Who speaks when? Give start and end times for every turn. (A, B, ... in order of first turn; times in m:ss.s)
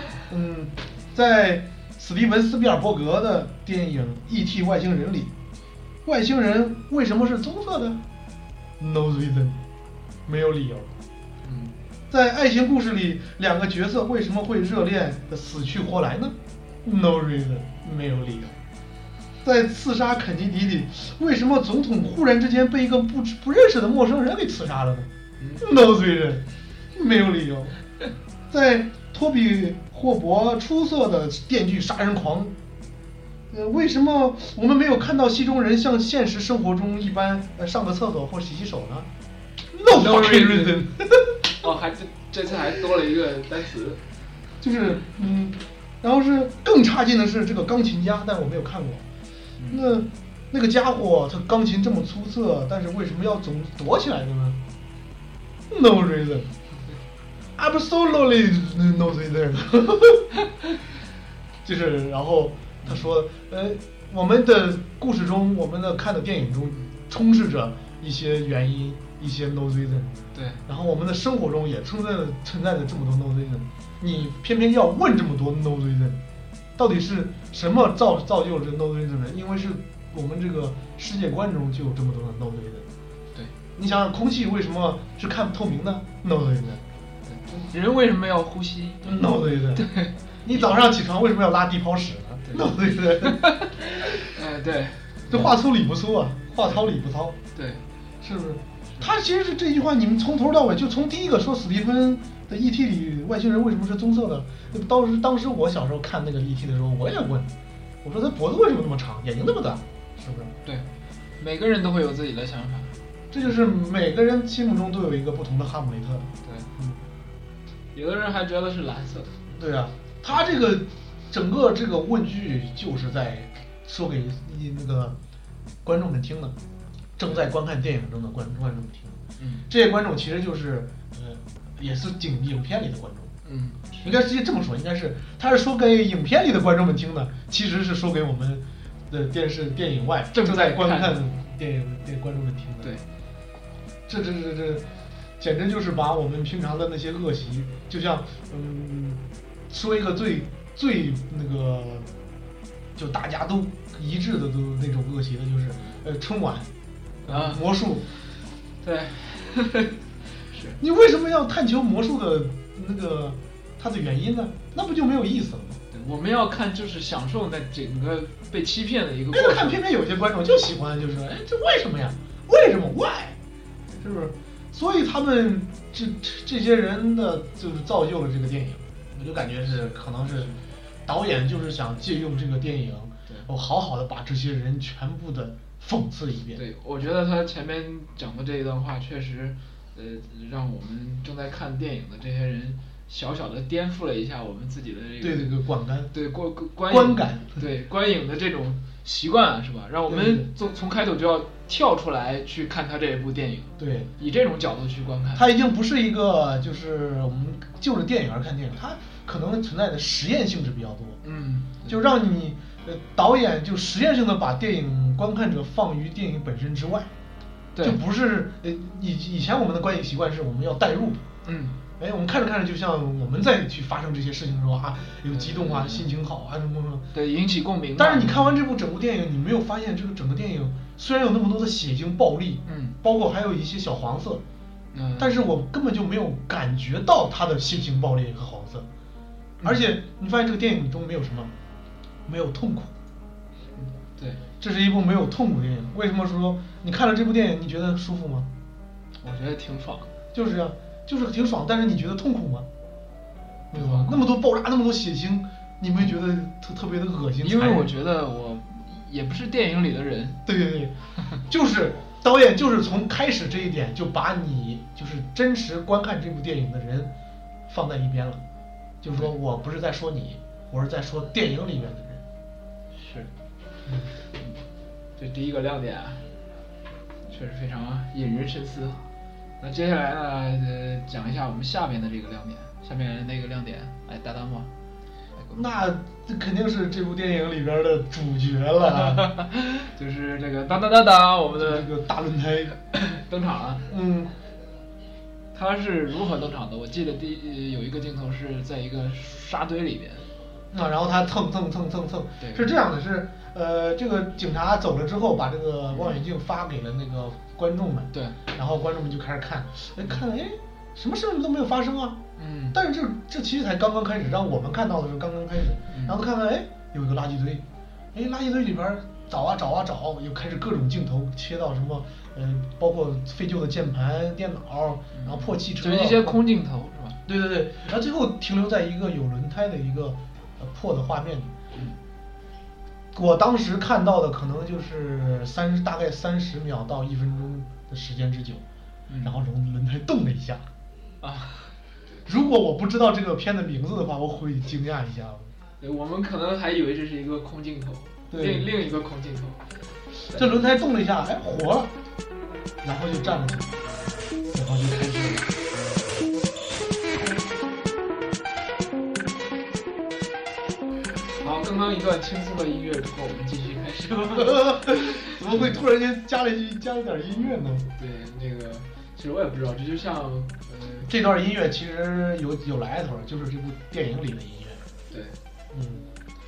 0:00.3-0:05.3 A
0:06.0-0:08.0 A
0:08.8-0:09.6 A
0:10.2-0:10.9 A
0:11.4-0:11.7 B
0:12.1-0:18.6 A
0:19.4-0:27.8 A
0:25.4-0:25.7 B
0:28.5-0:32.5 A
0:33.5-0:39.1 A
0:39.7-0:41.4 A
0:39.9-0:40.8 B
0:41.6-0:44.0 B
0:44.6-0:49.0 A
0:49.6-0:50.0 B
0:49.7-0:54.6 A
0:55.7-0:56.5 A
0:57.6-1:00.3 A
1:01.6-1:16.2 A
1:02.8-1:03.1 B
1:10.3-1:10.6 B
1:16.8-1:22.9 A
1:23.8-1:26.8 A
1:27.2-1:30.1 B
1:29.0-1:29.9 A
1:30.4-1:33.4 A
1:33.2-1:35.5 B
1:35.3-1:37.4 A
1:37.5-1:37.8 B
1:38.2-1:50.5 A
1:51.4-1:53.0 B
1:53.3-1:57.0 A
1:56.4-1:56.7 B
1:57.9-1:59.3 B
1:59.5-2:05.2 A
2:05.8-2:06.6 A
2:07.2-2:13.3 A
2:09.4-2:09.6 B
2:13.4-2:14.2 B
2:14.0-2:22.9 A
2:20.3-2:21.2 B
2:24.1-2:24.8 A
2:25.4-2:32.1 A
2:33.0-2:36.7 A
2:37.2-2:37.7 B
2:37.2-2:38.1 A
2:38.8-2:40.8 B
2:40.8-2:45.8 A
2:45.9-2:49.8 B
2:49.3-2:53.4 A
2:54.0-3:00.5 A
2:59.6-3:00.6 B
3:01.0-3:06.6 A
3:06.5-3:15.5 B
3:15.2-3:16.1 A
3:16.1-3:25.5 B
3:16.9-3:17.6 A
3:20.1-3:20.5 A
3:23.8-3:24.1 A
3:25.3-3:31.2 A
3:31.2-3:32.0 B
3:31.8-3:37.1 A
3:37.8-3:41.2 A
3:41.4-3:41.8 B
3:42.0-3:47.1 A
3:45.3-3:46.1 B
3:47.1-3:48.6 B
3:48.0-3:54.4 A
3:52.6-3:53.0 B
3:54.9-3:55.4 B
3:55.2-3:58.9 A
3:59.6-3:59.9 B
3:59.6-4:01.5 A
4:02.2-4:02.9 A
4:03.8-4:04.4 B
4:04.6-4:08.5 A
4:09.2-4:10.1 B
4:10.3-4:12.7 A
4:13.7-4:17.9 A
4:13.7-4:14.2 B
4:17.4-4:20.4 B
4:20.4-4:20.9 A
4:21.5-4:27.1 A
4:27.7-4:28.4 A
4:29.0-4:32.2 A
4:32.9-4:33.3 B
4:33.8-4:34.1 A
4:34.4-4:34.6 B
4:35.2-4:36.3 B
4:37.3-4:39.0 B
4:39.6-4:44.7 B
4:45.4-4:45.6 B
4:45.5-4:49.3 A
4:49.0-4:51.9 B
4:51.5-4:52.7 A
4:52.9-4:53.9 B
4:53.9-4:54.3 A
4:55.5-5:00.3 B
5:00.7-5:12.2 A
5:02.4-5:02.7 B
5:05.9-5:06.2 B
5:08.1-5:08.4 B
5:12.4-5:12.8 B
5:12.7-5:26.5 A
5:15.9-5:16.2 B
5:25.1-5:27.2 B
5:27.2-5:31.5 A
5:33.1-5:38.6 A
5:39.1-5:39.4 B
5:39.2-5:40.6 A
5:41.2-5:41.7 B
5:42.2-5:45.5 A
5:45.8-5:49.6 B
5:48.3-5:48.7 A
5:50.3-5:50.6 B
5:50.3-5:51.9 A
5:52.8-5:53.8 A
5:54.5-5:55.5 A
6:01.3-6:05.8 B
6:04.4-6:07.9 A
6:08.0-6:11.1 B
6:11.0-6:14.8 A
6:15.1-6:15.4 B
6:15.7-6:16.0 A